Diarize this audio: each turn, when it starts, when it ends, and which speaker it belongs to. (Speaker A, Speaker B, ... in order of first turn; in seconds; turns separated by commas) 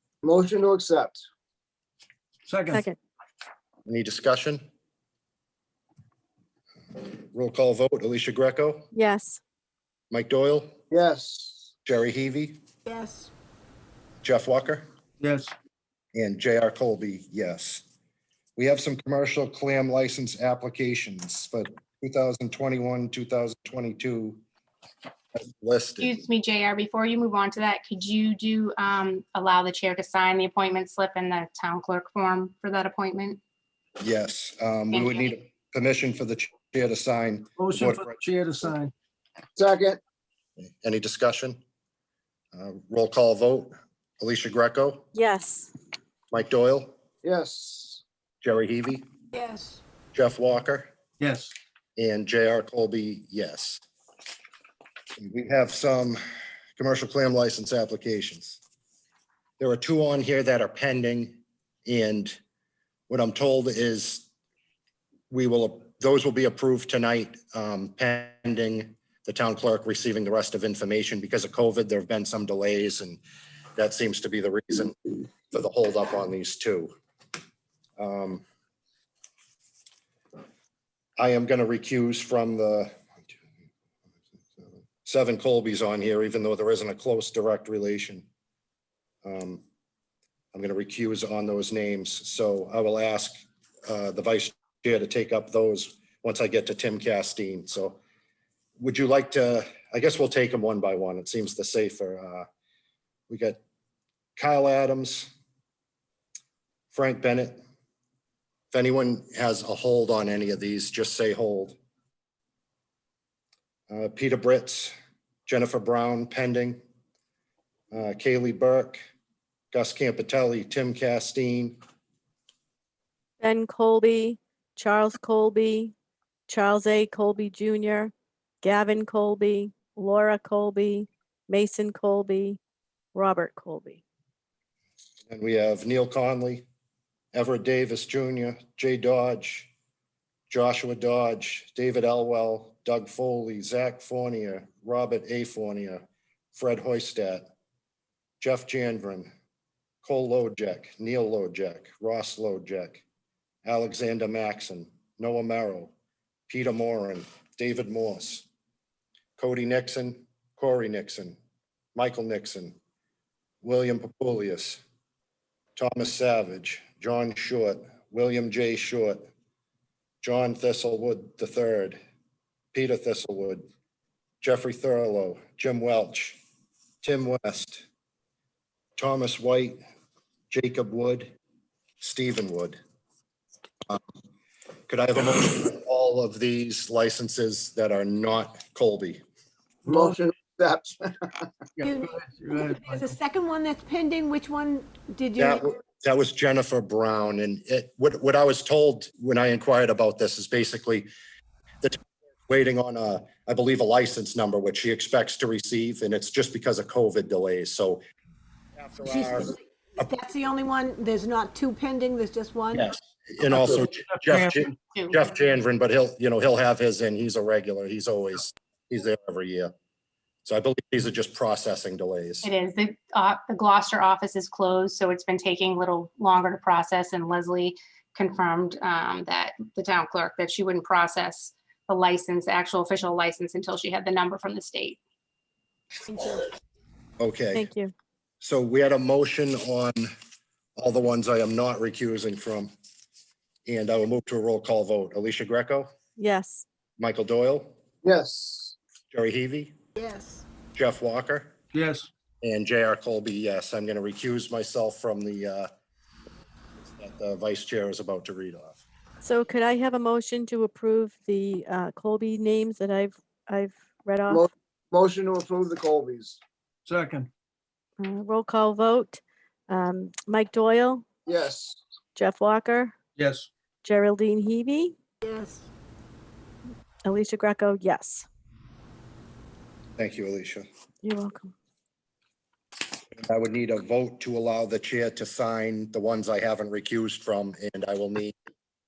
Speaker A: 0.2-1.2, Speaker B: 2.5-2.9, Speaker C: 2.7-3.0, Speaker D: 3.9-4.6, Speaker D: 7.3-8.9, Speaker C: 8.9-9.4, Speaker D: 10.1-10.8, Speaker A: 10.9-11.7, Speaker D: 11.8-12.6, Speaker E: 12.9-13.3, Speaker D: 14.2-14.8, Speaker B: 15.2-15.5, Speaker D: 16.1-17.8, Speaker D: 18.6-24.4, Speaker D: 25.4-26.2, Speaker F: 26.0-33.4, Speaker D: 34.0-38.2, Speaker F: 34.9-35.3, Speaker B: 37.6-38.9, Speaker A: 39.5-40.0, Speaker D: 40.6-41.6, Speaker D: 42.5-45.1, Speaker C: 45.1-45.7, Speaker D: 46.3-47.0, Speaker A: 47.2-48.0, Speaker D: 48.4-49.0, Speaker E: 49.3-49.8, Speaker D: 50.1-50.9, Speaker B: 51.2-51.5, Speaker D: 52.0-53.8, Speaker D: 55.2-56.2, Speaker D: 56.8-58.6, Speaker D: 59.6-62.4, Speaker D: 63.1-64.3, Speaker D: 65.3-73.2, Speaker D: 73.8-76.9, Speaker D: 78.0-78.4, Speaker D: 81.2-82.9, Speaker D: 84.6-88.3, Speaker D: 89.2-89.6, Speaker D: 90.5-93.3, Speaker D: 93.9-98.0, Speaker D: 98.8-102.5, Speaker D: 103.3-103.6, Speaker D: 104.4-105.3, Speaker D: 106.9-107.6, Speaker D: 108.7-111.8, Speaker D: 113.9-114.9, Speaker D: 115.5-116.8, Speaker D: 117.9-119.0, Speaker D: 119.7-121.8, Speaker C: 123.4-125.9, Speaker C: 126.5-132.6, Speaker C: 133.1-134.0, Speaker D: 135.3-136.7, Speaker D: 137.3-139.7, Speaker D: 140.5-147.5, Speaker D: 148.4-149.3, Speaker D: 150.0-153.0, Speaker D: 153.6-155.9, Speaker D: 156.5-158.5, Speaker D: 159.4-161.4, Speaker D: 161.9-162.8, Speaker D: 163.6-164.8, Speaker D: 165.8-169.3, Speaker D: 170.2-172.0, Speaker D: 172.7-173.6, Speaker D: 174.4-176.4, Speaker D: 177.0-177.8, Speaker D: 179.0-179.8, Speaker D: 180.5-181.3, Speaker D: 182.0-182.8, Speaker D: 184.9-189.2, Speaker B: 189.9-190.2, Speaker A: 189.9-191.4, Speaker B: 191.8-193.0, Speaker E: 191.8-195.7, Speaker D: 195.4-201.1, Speaker D: 201.8-208.0, Speaker D: 208.8-209.6, Speaker E: 209.0-212.9, Speaker D: 212.7-219.7, Speaker B: 213.6-214.7, Speaker F: 214.9-215.2, Speaker D: 220.4-222.5, Speaker F: 222.4-235.0, Speaker E: 236.1-236.4, Speaker D: 237.2-237.7, Speaker C: 237.5-237.9, Speaker D: 238.4-240.1, Speaker D: 240.8-242.7, Speaker D: 243.7-245.9, Speaker C: 246.2-246.6, Speaker D: 247.0-247.7, Speaker A: 248.0-248.7, Speaker D: 249.1-249.7, Speaker D: 250.7-251.5, Speaker B: 251.7-252.1, Speaker D: 252.4-255.7, Speaker D: 256.8-258.8, Speaker C: 259.2-264.4, Speaker A: 264.3-266.4, Speaker B: 266.9-267.3, Speaker C: 268.0-271.0, Speaker A: 271.3-271.8, Speaker C: 272.1-272.9, Speaker B: 273.2-273.5, Speaker C: 273.8-274.9, Speaker E: 275.2-275.6, Speaker C: 277.0-278.2, Speaker D: 280.0-280.6, Speaker C: 281.0-281.5, Speaker D: 283.2-288.3